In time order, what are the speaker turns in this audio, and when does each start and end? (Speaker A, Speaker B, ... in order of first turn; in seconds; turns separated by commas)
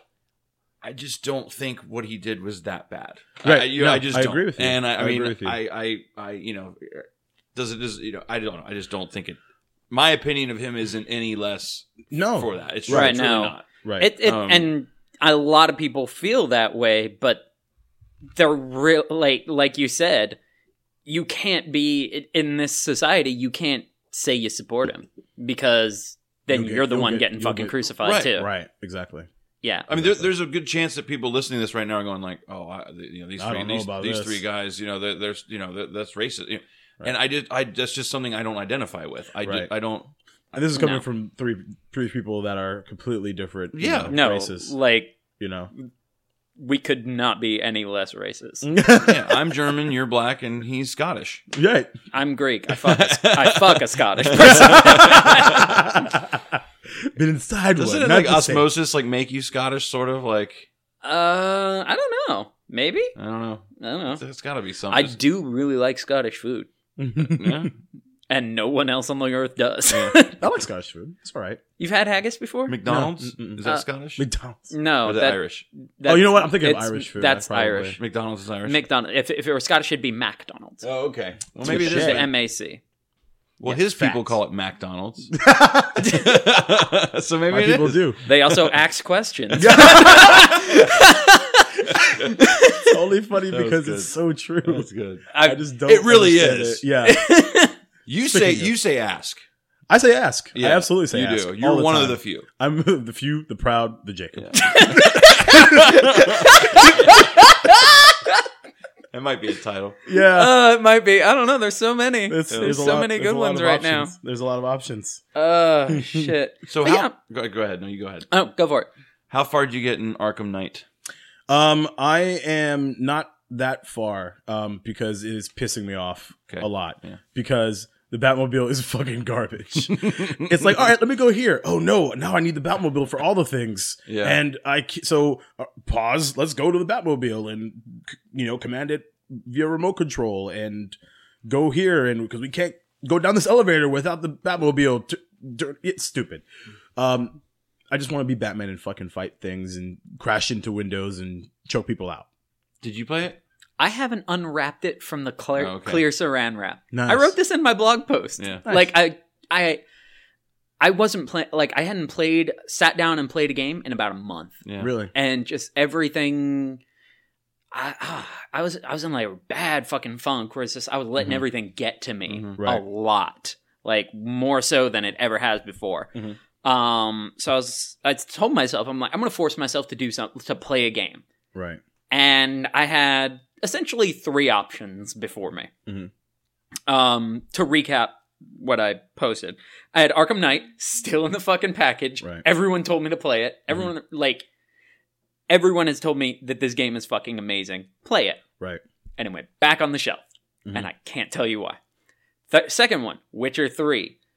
Speaker A: 0.8-9.4, Speaker B: 3.4-5.6, Speaker A: 9.9-13.7, Speaker B: 12.1-13.2, Speaker C: 12.9-17.4, Speaker B: 13.8-14.1, Speaker A: 14.2-14.7, Speaker C: 18.4-20.4, Speaker C: 21.1-28.5, Speaker B: 26.5-29.3, Speaker A: 28.0-28.3, Speaker A: 29.9-40.1, Speaker B: 29.9-30.3, Speaker B: 33.4-34.4, Speaker B: 39.4-39.7, Speaker B: 40.5-44.7, Speaker C: 40.7-41.0, Speaker A: 43.7-44.1, Speaker C: 44.1-45.1, Speaker B: 45.4-45.7, Speaker C: 46.6-48.7, Speaker B: 48.6-49.4, Speaker A: 49.0-51.4, Speaker B: 51.5-51.9, Speaker C: 52.1-55.8, Speaker A: 52.9-55.6, Speaker B: 54.3-58.7, Speaker A: 57.8-60.7, Speaker C: 61.0-63.1, Speaker A: 63.2-65.2, Speaker C: 63.8-64.2, Speaker C: 64.9-66.7, Speaker B: 67.0-67.7, Speaker A: 67.2-67.7, Speaker C: 68.3-70.4, Speaker A: 69.9-70.2, Speaker B: 70.3-71.6, Speaker C: 71.8-72.8, Speaker A: 72.7-74.2, Speaker B: 72.8-73.7, Speaker B: 74.2-74.7, Speaker C: 74.7-78.0, Speaker A: 75.0-75.7, Speaker B: 76.0-78.0, Speaker A: 78.0-78.8, Speaker C: 78.7-80.8, Speaker A: 80.8-82.3, Speaker B: 81.6-82.2, Speaker C: 81.7-82.8, Speaker A: 83.6-85.4, Speaker B: 83.7-84.3, Speaker B: 85.3-86.2, Speaker A: 86.0-88.7, Speaker B: 87.5-88.2, Speaker C: 88.2-93.0, Speaker B: 89.6-90.7, Speaker A: 89.6-90.5, Speaker A: 91.9-92.3, Speaker B: 92.8-94.9, Speaker A: 93.5-94.1, Speaker A: 94.6-95.3, Speaker C: 95.3-95.6, Speaker B: 95.4-97.2, Speaker A: 95.8-96.8, Speaker C: 97.0-97.8, Speaker A: 98.1-99.4, Speaker B: 98.3-98.7, Speaker B: 99.9-106.0, Speaker A: 100.5-102.5, Speaker A: 104.4-107.1, Speaker C: 104.5-108.5, Speaker A: 109.1-110.0, Speaker B: 110.1-110.5, Speaker C: 110.2-114.1, Speaker B: 112.3-115.2, Speaker A: 112.5-112.8, Speaker C: 115.3-117.1, Speaker B: 115.9-116.3, Speaker A: 116.7-118.3, Speaker C: 118.3-118.9, Speaker A: 119.3-120.8, Speaker B: 121.5-146.4, Speaker A: 126.5-127.2, Speaker A: 129.9-130.6, Speaker A: 134.1-134.4, Speaker B: 147.0-147.4, Speaker B: 147.9-152.3, Speaker A: 152.8-153.4, Speaker C: 153.8-159.8, Speaker A: 155.6-156.1, Speaker B: 156.9-157.3, Speaker A: 158.4-158.7, Speaker B: 158.7-158.9, Speaker C: 160.8-164.6, Speaker A: 164.6-164.9, Speaker B: 164.8-165.1, Speaker C: 165.1-166.8, Speaker C: 167.7-176.1, Speaker A: 172.3-172.6, Speaker B: 172.6-172.8, Speaker C: 176.6-181.2, Speaker B: 181.5-181.8, Speaker C: 182.1-185.7, Speaker B: 185.9-186.1, Speaker C: 186.9-194.5, Speaker C: 195.5-198.4, Speaker C: 199.2-201.8, Speaker C: 202.5-204.2